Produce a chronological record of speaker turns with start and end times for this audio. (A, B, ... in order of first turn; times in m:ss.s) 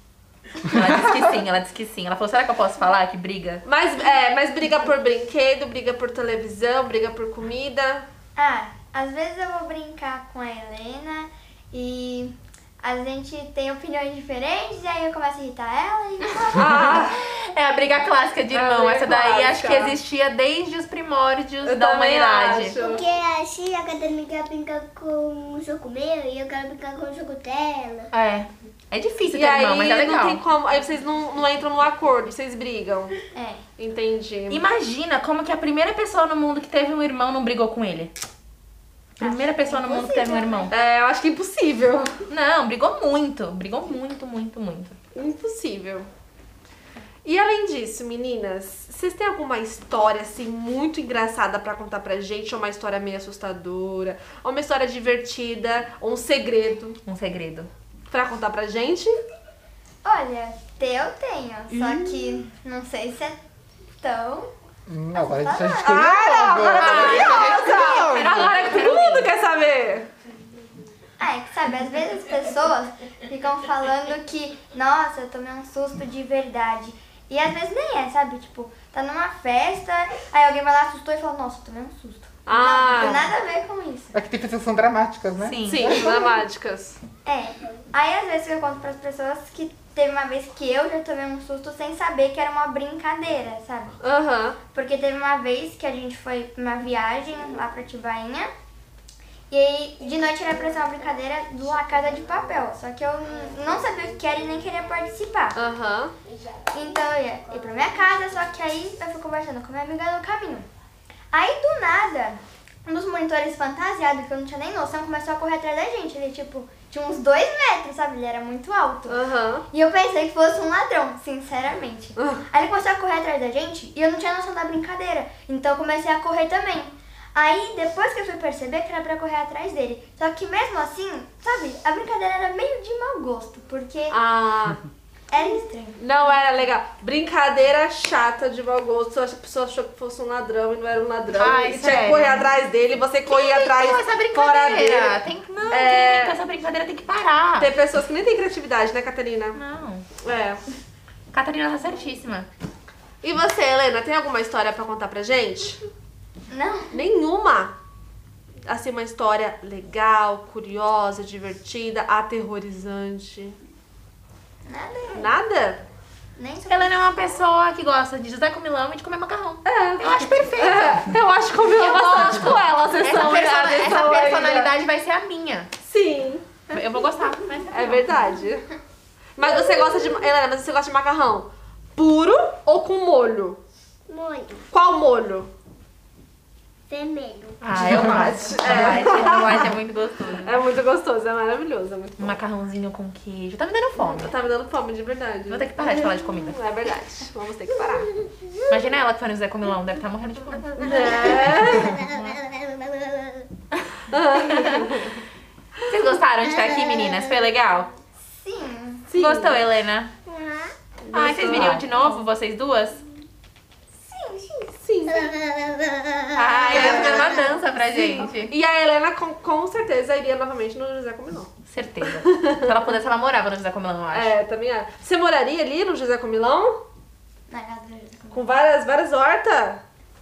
0:00.6-0:03.6 A
0:03.6-0:08.0 B
0:08.3-0:17.1 C
0:16.5-0:17.2 B
0:17.1-0:22.7 A
0:18.5-0:20.0 B
0:21.6-0:23.0 B
0:22.8-0:28.1 D
0:28.1-0:30.4 A
0:29.3-0:33.2 B
0:33.3-0:33.6 C
0:33.8-0:34.6 B
0:34.5-0:38.1 A
0:39.2-0:40.7 A
0:39.2-0:40.7 C
0:40.7-0:42.1 B
0:42.3-0:44.9 A
0:45.1-0:46.1 B
0:47.2-0:57.0 B
0:57.0-0:57.7 A
0:58.1-0:59.1 B
1:00.0-1:03.4 C
1:01.7-1:02.4 B
1:04.0-1:04.5 C
1:04.9-1:08.4 E
1:05.1-1:07.7 C
1:05.9-1:10.1 B
1:06.8-1:09.3 A
1:11.2-1:24.1 C
1:22.4-1:23.3 B
1:24.1-1:26.2 E
1:25.4-1:25.9 A
1:25.6-1:27.0 B
1:27.2-1:34.0 C
1:34.0-1:34.6 B
1:34.7-1:38.5 C
1:39.5-1:45.6 C
1:45.5-1:46.1 B
1:46.3-1:46.7 D
1:46.7-1:50.7 C
1:51.3-2:14.2 C
1:59.1-1:59.6 B
2:02.2-2:02.4 B
2:14.1-2:14.8 B
2:15.3-2:16.0 C
2:16.0-2:26.4 B
2:21.4-2:22.5 A
2:23.3-2:27.7 A
2:27.6-2:29.6 B
2:29.5-2:30.0 A
2:30.2-2:30.6 B
2:31.3-2:32.5 A
2:33.2-2:35.8 B
2:36.5-2:36.9 C
2:36.9-2:37.7 B
2:38.6-2:43.6 B
2:44.6-2:45.4 C
2:45.1-2:45.8 B
2:46.4-2:47.0 C
2:46.6-2:51.0 A
2:49.6-2:54.7 B
2:51.6-2:55.7 A
2:55.8-2:56.6 B
2:56.7-2:58.0 A
2:57.7-2:58.6 B
2:59.4-3:03.6 B
3:04.1-3:04.6 D
3:04.7-3:05.5 B
3:06.9-3:07.6 D
3:07.6-3:10.6 A
3:07.8-3:09.7 B
3:10.4-3:12.4 B
3:12.2-3:14.3 A
3:13.9-3:18.1 B
3:15.5-3:16.6 A
3:18.7-3:22.4 A
3:20.8-3:21.9 B
3:21.9-3:23.5 D
3:23.7-3:24.8 A
3:24.1-3:25.2 B
3:25.9-3:27.9 A
3:28.2-3:29.1 C
3:29.1-3:29.6 B
3:29.1-3:30.1 A
3:30.3-3:30.7 D
3:31.0-3:31.9 B
3:31.1-3:33.0 A
3:34.0-3:34.7 C
3:34.8-3:35.3 B
3:35.1-3:37.4 D
3:36.3-3:38.5 A
3:36.6-3:41.5 B
3:41.6-3:44.3 A
3:42.1-3:42.7 B
3:44.1-3:46.7 B
3:47.5-3:48.4 C
3:48.3-3:49.8 B